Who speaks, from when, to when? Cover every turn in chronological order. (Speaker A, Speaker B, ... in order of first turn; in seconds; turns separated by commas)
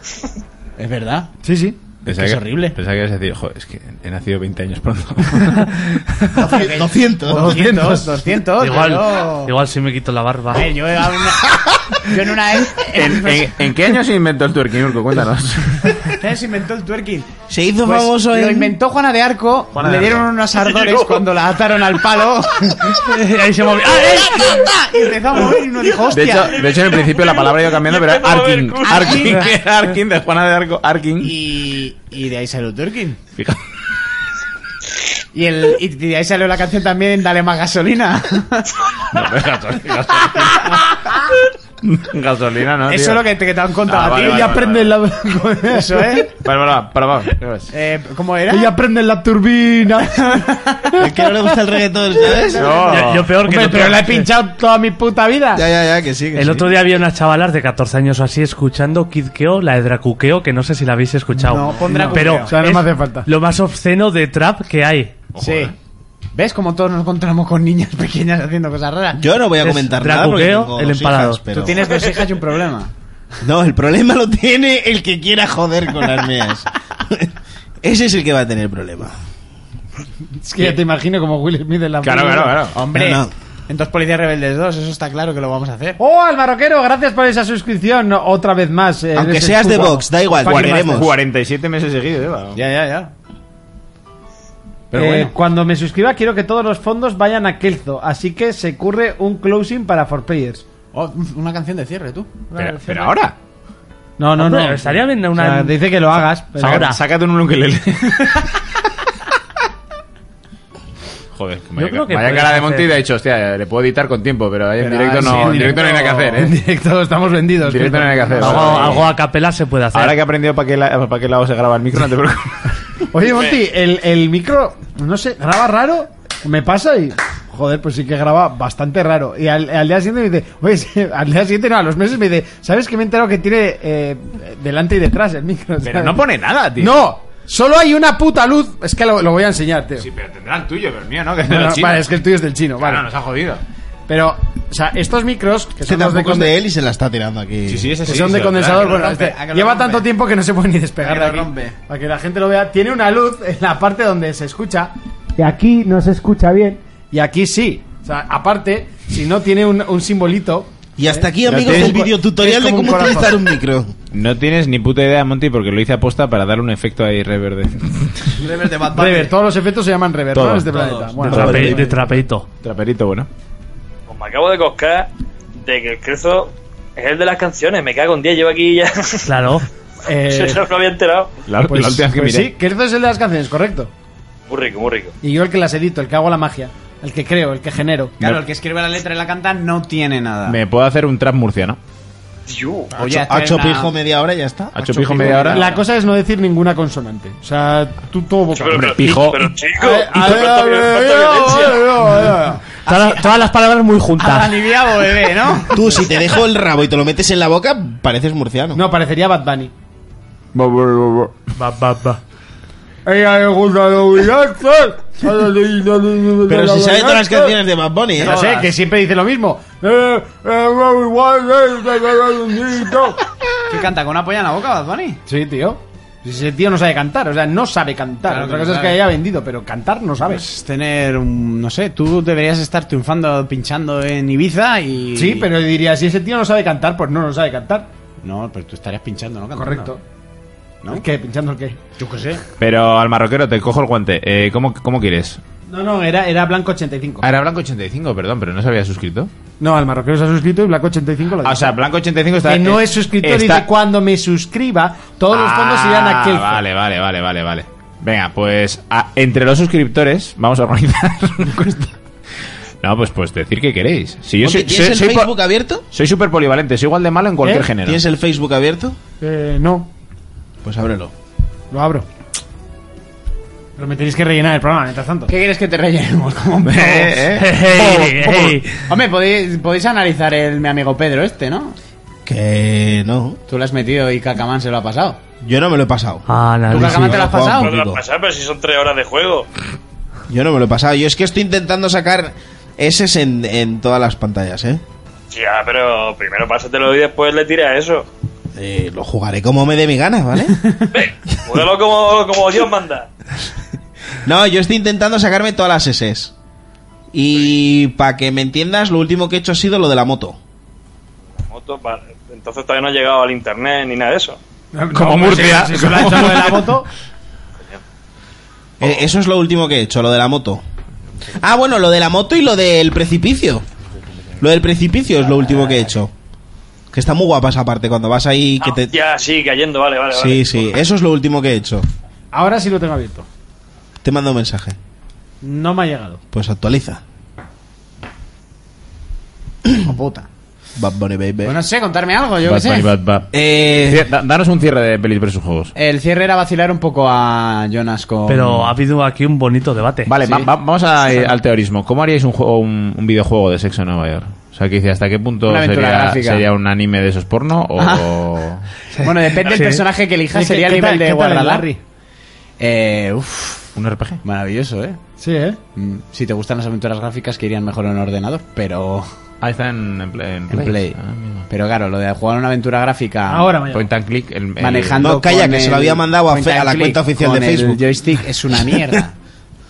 Speaker A: 0.8-1.3, Speaker B: 1.4-1.8, Speaker A: 2.1-2.8, Speaker C: 2.1-6.0, Speaker D: 6.3-7.6, Speaker A: 6.5-9.5, Speaker B: 7.3-8.2, Speaker E: 8.6-10.7, Speaker A: 10.5-13.7, Speaker C: 12.9-16.0, Speaker A: 16.1-17.3, Speaker D: 17.5-18.8, Speaker A: 17.8-23.0, Speaker C: 19.7-20.3, Speaker E: 22.9-24.7, Speaker A: 24.1-26.6, Speaker C: 26.1-31.3, Speaker F: 26.7-29.3, Speaker A: 28.9-29.6, Speaker A: 31.2-33.2, Speaker A: 35.3-38.8, Speaker C: 39.1-40.9, Speaker C: 41.8-43.3, Speaker A: 42.9-44.6, Speaker C: 43.8-45.0, Speaker B: 44.1-46.3, Speaker A: 45.7-46.3, Speaker C: 46.4-47.7, Speaker A: 47.7-48.7, Speaker B: 48.5-51.3, Speaker A: 50.2-50.9, Speaker D: 51.0-52.9, Speaker A: 52.5-53.0, Speaker C: 52.5-53.3, Speaker E: 52.9-54.3, Speaker B: 53.4-55.7, Speaker D: 55.5-56.7, Speaker E: 56.4-65.2, Speaker A: 61.3-62.5, Speaker B: 61.9-63.3, Speaker C: 65.3-65.8, Speaker A: 65.4-65.7, Speaker A: 66.3-69.2, Speaker D: 69.2-72.1, Speaker E: 69.6-71.5, Speaker A: 71.5-72.9, Speaker D: 73.4-77.3, Speaker D: 77.8-79.1, Speaker B: 80.4-82.7, Speaker C: 82.0-82.8, Speaker A: 82.8-86.0, Speaker D: 82.9-83.3, Speaker B: 86.0-91.1, Speaker D: 89.1-91.1, Speaker C: 90.4-92.6, Speaker A: 92.5-93.1, Speaker A: 94.9-95.3, Speaker B: 95.0-100.6, Speaker A: 100.9-102.3, Speaker C: 102.5-103.3, Speaker E: 102.6-103.1, Speaker B: 104.2-106.9, Speaker E: 104.4-105.8, Speaker E: 106.6-107.0, Speaker C: 106.6-108.7, Speaker C: 111.3-116.6, Speaker E: 111.8-112.9, Speaker A: 114.8-116.0, Speaker B: 115.2-119.1, Speaker C: 117.6-119.1, Speaker E: 118.4-120.2, Speaker C: 119.9-122.8, Speaker B: 123.1-140.1, Speaker F: 123.3-123.6, Speaker C: 135.8-137.1, Speaker C: 140.0-142.1, Speaker B: 141.4-143.1, Speaker C: 142.8-143.6, Speaker B: 144.1-146.6, Speaker D: 145.8-148.0, Speaker C: 147.7-148.9, Speaker B: 148.0-163.4, Speaker A: 148.6-150.1, Speaker A: 151.0-151.8, Speaker D: 161.0-163.9, Speaker C: 161.5-162.1, Speaker C: 164.1-168.4, Speaker D: 168.5-169.2, Speaker B: 168.8-171.8, Speaker C: 170.3-172.0, Speaker E: 171.2-172.5, Speaker C: 172.6-173.3, Speaker F: 174.1-175.1, Speaker F: 175.6-179.3, Speaker E: 179.3-179.7, Speaker B: 180.1-180.7, Speaker F: 180.3-181.3, Speaker C: 181.5-182.5, Speaker B: 181.7-183.9, Speaker F: 184.5-185.1, Speaker B: 185.2-188.4, Speaker A: 188.2-190.6, Speaker C: 190.5-191.8, Speaker F: 192.5-192.9, Speaker A: 192.9-193.9, Speaker D: 193.1-195.4, Speaker C: 194.7-195.7, Speaker A: 194.9-195.8, Speaker B: 195.3-199.1, Speaker F: 198.5-201.8, Speaker C: 198.7-199.5, Speaker B: 199.8-202.6, Speaker A: 201.6-203.2, Speaker E: 202.9-204.6, Speaker A: 204.2-206.0, Speaker D: 205.7-208.8, Speaker B: 208.8-209.7, Speaker C: 210.6-211.3, Speaker E: 211.6-212.2, Speaker B: 213.1-217.6, Speaker D: 216.5-218.4, Speaker A: 218.2-218.7, Speaker B: 218.2-223.3, Speaker A: 223.7-225.2, Speaker B: 225.3-230.4, Speaker A: 228.3-229.0, Speaker A: 230.2-235.5, Speaker B: 235.2-237.9, Speaker A: 238.2-239.9, Speaker B: 239.6-240.0, Speaker B: 240.9-241.8, Speaker A: 242.0-242.4, Speaker C: 242.6-245.4, Speaker B: 245.7-247.2, Speaker C: 247.2-249.3, Speaker B: 249.6-251.8, Speaker C: 251.4-253.7, Speaker B: 252.4-256.6, Speaker C: 255.3-261.9, Speaker C: 262.8-265.3, Speaker D: 264.4-265.8, Speaker C: 265.9-268.0, Speaker B: 267.4-267.8, Speaker D: 267.8-269.0, Speaker B: 269.2-269.9, Speaker D: 270.6-271.1, Speaker B: 271.7-272.1, Speaker B: 273.8-275.3, Speaker A: 275.3-277.4, Speaker C: 276.6-278.6, Speaker E: 277.4-278.9, Speaker A: 278.4-281.8, Speaker D: 282.3-283.4, Speaker A: 283.5-285.2, Speaker D: 285.4-288.0, Speaker E: 286.3-287.4, Speaker A: 286.7-287.7, Speaker F: 287.5-289.5, Speaker D: 290.3-294.8, Speaker F: 295.3-298.1, Speaker D: 298.6-300.8, Speaker F: 300.9-303.1, Speaker D: 304.2-306.3, Speaker D: 307.1-310.4, Speaker F: 311.5-314.4, Speaker B: 314.7-316.9, Speaker C: 314.9-316.7, Speaker D: 318.8-320.6, Speaker D: 321.4-323.6, Speaker D: 324.4-326.1, Speaker D: 326.9-328.9, Speaker F: 328.6-330.7, Speaker D: 330.1-331.9, Speaker B: 332.3-333.3, Speaker D: 334.0-334.8, Speaker B: 335.4-336.2, Speaker D: 336.3-337.0, Speaker A: 339.8-340.3, Speaker D: 340.8-341.6, Speaker A: 341.4-342.9, Speaker C: 342.4-345.7, Speaker D: 343.3-344.1, Speaker A: 345.8-348.6, Speaker E: 348.3-350.1, Speaker C: 350.1-358.7, Speaker A: 350.2-350.5, Speaker A: 355.5-356.5, Speaker A: 357.8-358.2, Speaker E: 359.0-359.9, Speaker A: 359.0-361.7, Speaker B: 360.3-361.8, Speaker A: 362.6-363.7, Speaker C: 363.8-364.2, Speaker A: 364.2-365.0, Speaker B: 365.2-365.6, Speaker A: 365.8-369.1, Speaker C: 369.4-371.5, Speaker A: 370.5-371.0, Speaker A: 371.5-373.5, Speaker B: 373.3-373.9, Speaker C: 373.7-375.0, Speaker A: 374.6-379.1, Speaker D: 375.0-377.8